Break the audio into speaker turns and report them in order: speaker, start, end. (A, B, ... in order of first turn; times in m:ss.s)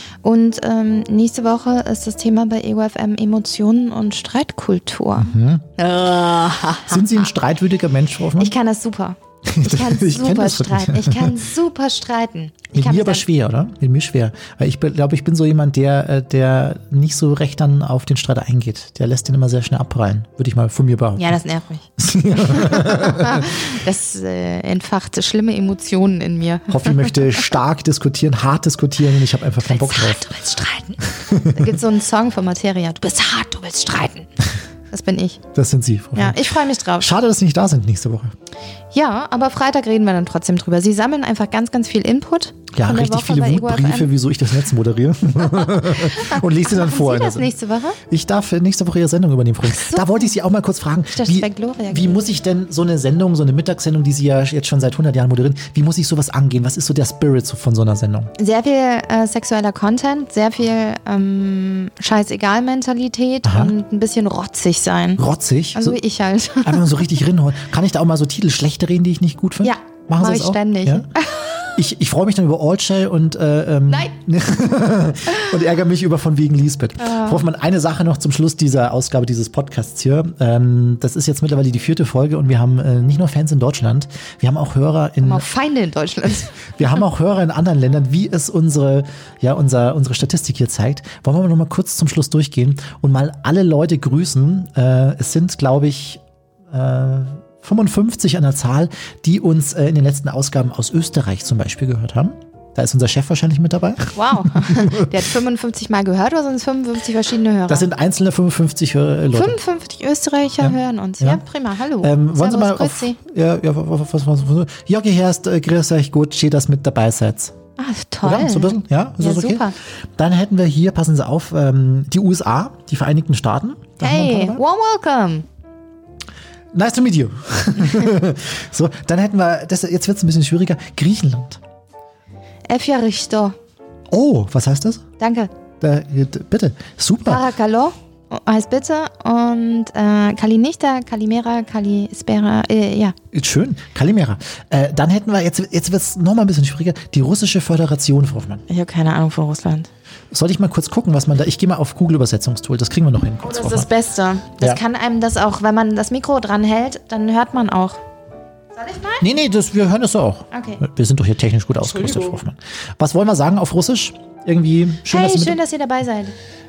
0:00.2-0:07.2 A
0:05.2-0:05.7 B
0:06.9-0:08.5 B
0:08.4-0:13.2 A
0:09.5-0:11.3 B
0:12.7-0:21.4 B
0:21.2-0:21.9 A
0:22.0-0:23.5 B
0:22.5-0:27.2 A
0:26.7-0:30.2 B
0:29.7-0:34.3 A
0:31.1-0:31.6 B
0:34.9-0:35.4 A
0:35.5-0:36.4 B
0:36.2-0:37.1 A
0:37.0-0:38.3 B
0:38.9-0:44.1 A
0:42.7-0:47.5 B
0:45.5-0:48.0 A
0:48.1-0:58.3 B
0:49.8-0:50.1 A
0:51.1-0:52.2 A
0:58.4-1:05.2 A
1:03.4-1:03.7 B
1:05.2-1:06.0 B
1:05.7-1:06.8 A
1:06.6-1:11.1 B
1:09.6-1:11.5 A
1:11.7-1:25.4 B
1:17.0-1:17.4 A
1:25.2-1:26.5 A
1:26.8-1:45.1 B
1:44.1-1:47.9 A
1:47.7-1:49.6 B
1:49.3-1:53.2 A
1:50.6-1:51.4 B
1:52.0-1:57.5 B
1:57.8-1:59.7 A
1:58.2-2:04.6 B
2:04.0-2:05.4 A
2:06.7-2:11.6 B
2:12.7-2:13.6 A
2:14.1-2:15.0 B
2:15.2-2:15.5 A
2:15.8-2:17.4 B
2:17.3-2:23.1 A
2:23.3-2:28.6 B
2:28.7-2:29.9 A
2:30.3-2:33.9 B
2:33.4-2:38.0 A
2:38.7-2:39.2 A
2:39.2-2:45.6 B
2:40.5-2:40.8 A
2:45.1-2:46.3 A